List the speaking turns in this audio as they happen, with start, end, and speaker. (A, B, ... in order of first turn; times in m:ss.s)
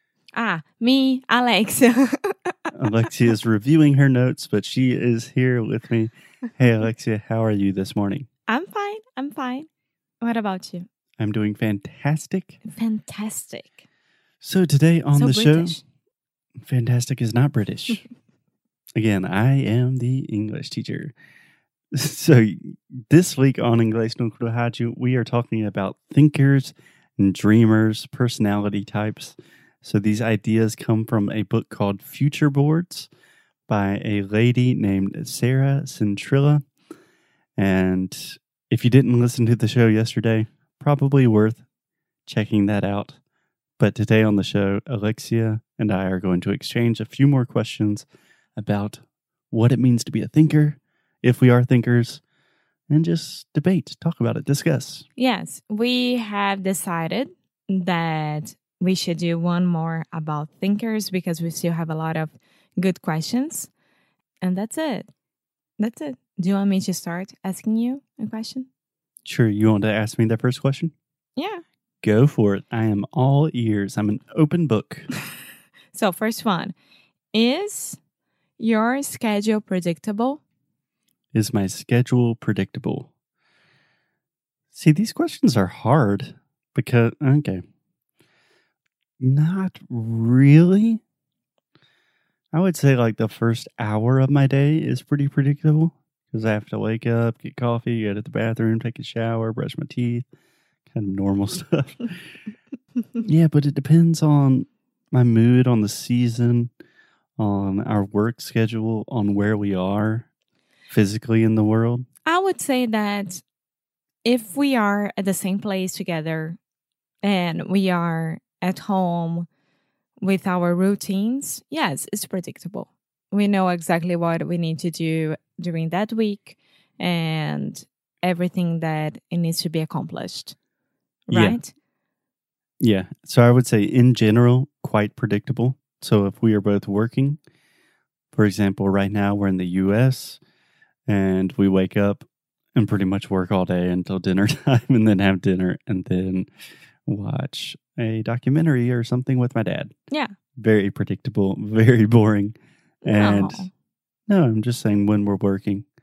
0:00.3-0:02.7 A
0:02.7-0:08.3 B
0:08.5-0:09.7 A
0:10.2-0:10.9 A
0:11.2-0:12.6 B
0:12.6-0:13.8 A
0:14.4-0:15.8 B
0:15.1-0:15.8 A
0:16.6-0:18.0 B
0:19.0-0:21.1 B
0:21.9-0:33.1 B
0:33.7-0:36.6 B
0:37.6-0:41.6 B
0:42.3-0:43.2 B
0:43.8-0:52.2 B
0:52.9-0:55.0 B
0:55.2-1:03.7 A
1:04.4-1:05.1 A
1:05.8-1:08.7 A
1:09.2-1:10.9 B
1:11.4-1:11.6 A
1:12.0-1:15.1 B
1:15.9-1:16.8 A
1:17.3-1:18.0 A
1:18.6-1:20.4 A
1:21.3-1:23.1 B
1:24.7-1:27.6 B
1:29.2-1:31.0 B
1:32.5-1:40.3 B
1:40.9-1:42.1 B
1:43.2-1:46.7 B
1:47.4-1:50.3 B
1:50.9-1:52.1 B
1:52.3-1:53.4 A
1:54.2-1:56.6 A
1:57.2-1:59.5 A
2:00.2-2:10.6 A
2:11.3-2:11.7 A
2:11.3-2:11.6 B
2:12.8-2:17.4 B
2:18.3-2:20.4 B
2:21.1-2:26.5 B
2:27.0-2:29.9 B
2:30.6-2:33.7 B
2:33.0-2:33.7 A
2:34.3-2:35.8 B